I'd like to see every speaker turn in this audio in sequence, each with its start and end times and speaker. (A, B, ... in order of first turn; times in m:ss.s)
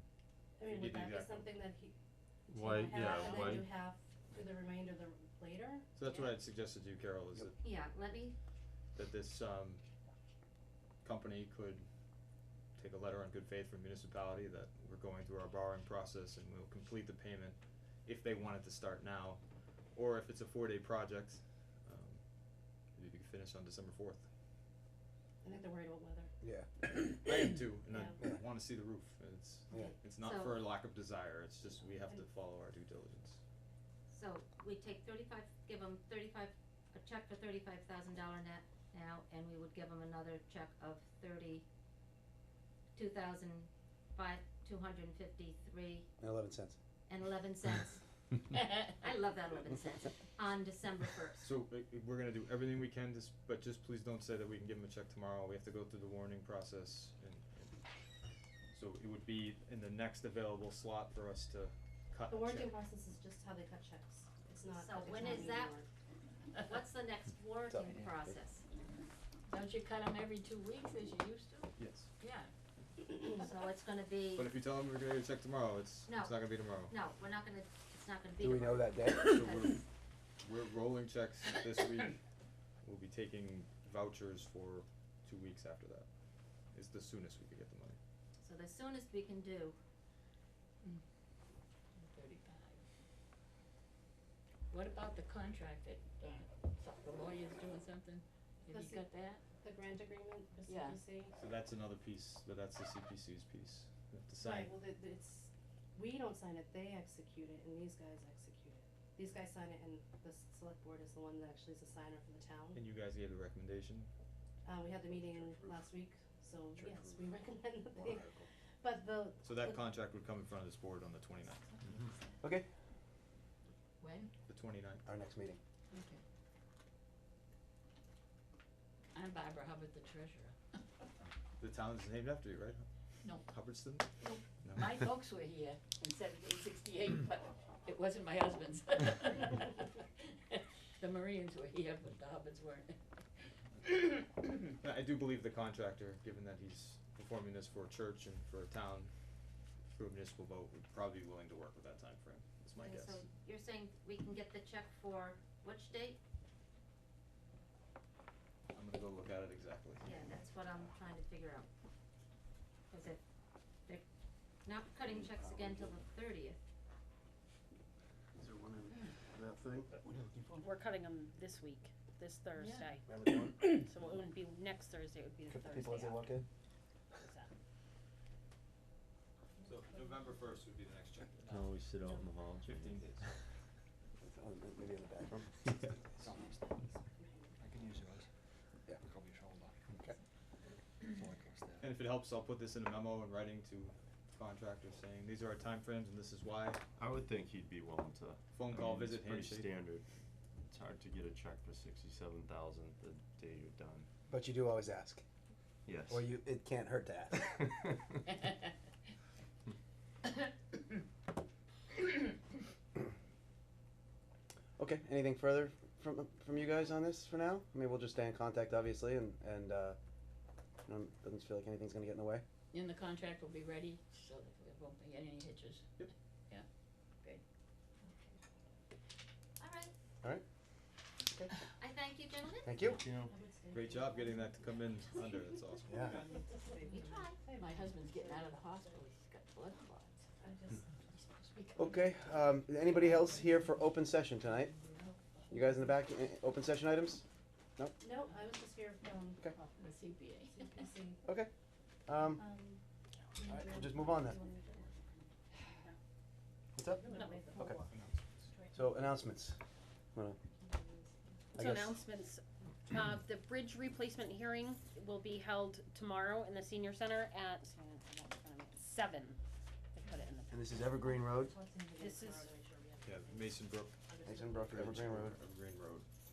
0:00.6-0:02.0 A
0:00.6-0:01.5 B
0:02.5-0:05.9 A
0:02.5-0:03.7 C
0:03.0-0:03.6 D
0:05.9-0:07.6 B
0:06.0-0:06.3 D
0:07.6-0:08.4 E
0:08.9-0:09.8 B
0:11.0-0:11.9 B
0:12.7-0:22.3 B
0:22.8-0:24.3 B
0:25.4-0:26.3 A
0:26.4-0:26.7 F
0:27.0-0:33.4 B
0:27.9-0:28.2 A
0:30.2-0:30.6 E
0:34.1-0:41.6 E
0:42.9-0:46.1 E
0:46.2-0:46.8 F
0:47.1-0:48.0 E
0:48.8-0:51.4 E
0:51.4-0:57.8 B
0:58.7-1:02.7 B
1:02.3-1:05.9 A
1:04.8-1:05.8 E
1:06.6-1:08.6 E
1:07.7-1:08.4 F
1:09.5-1:12.5 D
1:11.8-1:12.1 B
1:13.4-1:14.5 E
1:14.3-1:16.9 B
1:16.1-1:19.7 E
1:18.4-1:19.3 F
1:19.2-1:19.8 B
1:20.4-1:22.2 B
1:22.8-1:26.1 B
1:26.6-1:28.0 B
1:28.4-1:29.8 E
1:32.0-1:32.8 D
1:34.7-1:39.4 D
1:38.7-1:39.0 A
1:39.6-1:41.3 A
1:40.6-1:41.0 D
1:41.3-1:44.7 B
1:44.4-1:52.8 A
1:52.7-1:54.1 B
1:54.6-1:58.2 A
1:55.1-1:55.7 F
1:56.8-1:57.2 F
1:58.0-1:58.5 F
1:58.8-1:59.8 A
1:59.4-2:01.9 B
2:02.4-2:02.6 F
2:04.0-2:04.3 D
2:04.5-2:05.0 B
2:05.0-2:05.6 F
2:05.9-2:06.2 D
2:09.1-2:10.6 D
2:11.6-2:12.8 B
2:13.2-2:13.5 D
2:13.4-2:14.9 B
2:14.2-2:23.0 D
2:23.9-2:24.5 D
2:24.8-2:29.2 B
2:29.8-2:33.2 B
2:32.8-2:36.2 E
2:38.7-2:40.0 B
2:40.0-2:41.7 E
2:42.9-2:43.2 E
2:44.6-2:46.6 E
2:45.1-2:46.0 F
2:48.4-2:50.5 F
2:50.6-2:56.3 G
2:52.6-2:52.9 D
2:53.1-2:53.6 F
2:55.5-2:56.4 F
2:57.2-2:57.5 G
2:59.6-3:01.6 B
3:01.5-3:03.1 C
3:01.5-3:02.7 E
3:02.7-3:03.3 B
3:04.2-3:05.7 F
3:06.2-3:06.7 H
3:06.8-3:07.6 A
3:07.6-3:08.3 H
3:09.0-3:09.8 H
3:11.1-3:11.9 H
3:11.8-3:16.8 B
3:17.0-3:20.0 C
3:18.5-3:19.7 B
3:19.0-3:20.0 E
3:20.7-3:24.1 C
3:24.3-3:25.2 F
3:25.8-3:26.2 C
3:26.1-3:27.6 F
3:34.8-3:40.0 F
3:40.8-3:42.4 F
3:42.7-3:45.9 D
3:49.6-3:49.9 E
3:51.2-3:51.6 F
3:51.8-3:52.7 E
3:52.6-3:53.0 F
3:52.8-3:53.3 H
3:53.1-3:54.7 A
3:53.7-3:56.2 B
3:55.9-3:56.1 F
3:56.1-3:57.2 A
3:56.9-3:57.4 E
3:57.4-4:00.2 D
3:57.8-3:59.0 A
4:00.4-4:00.9 A
4:01.1-4:02.1 D
4:01.8-4:04.7 F
4:02.9-4:03.5 D
4:04.4-4:05.5 D
4:05.5-4:07.2 F
4:08.0-4:09.6 A
4:09.8-4:10.9 D
4:10.5-4:11.2 A
4:12.1-4:12.4 F
4:12.4-4:12.8 A
4:13.4-4:14.9 A
4:13.5-4:14.4 F
4:13.7-4:14.4 G
4:16.8-4:17.0 F
4:16.9-4:17.8 A
4:17.1-4:17.4 D
4:17.8-4:18.5 B
4:18.7-4:19.6 F
4:20.5-4:21.4 A
4:21.5-4:29.4 G
4:21.6-4:22.0 F
4:29.9-4:30.9 G
4:30.5-4:31.5 F
4:31.4-4:33.4 A
4:32.0-4:32.5 G
4:33.0-4:33.9 B
4:34.1-4:34.8 A
4:34.2-4:35.4 F
4:34.7-4:36.0 B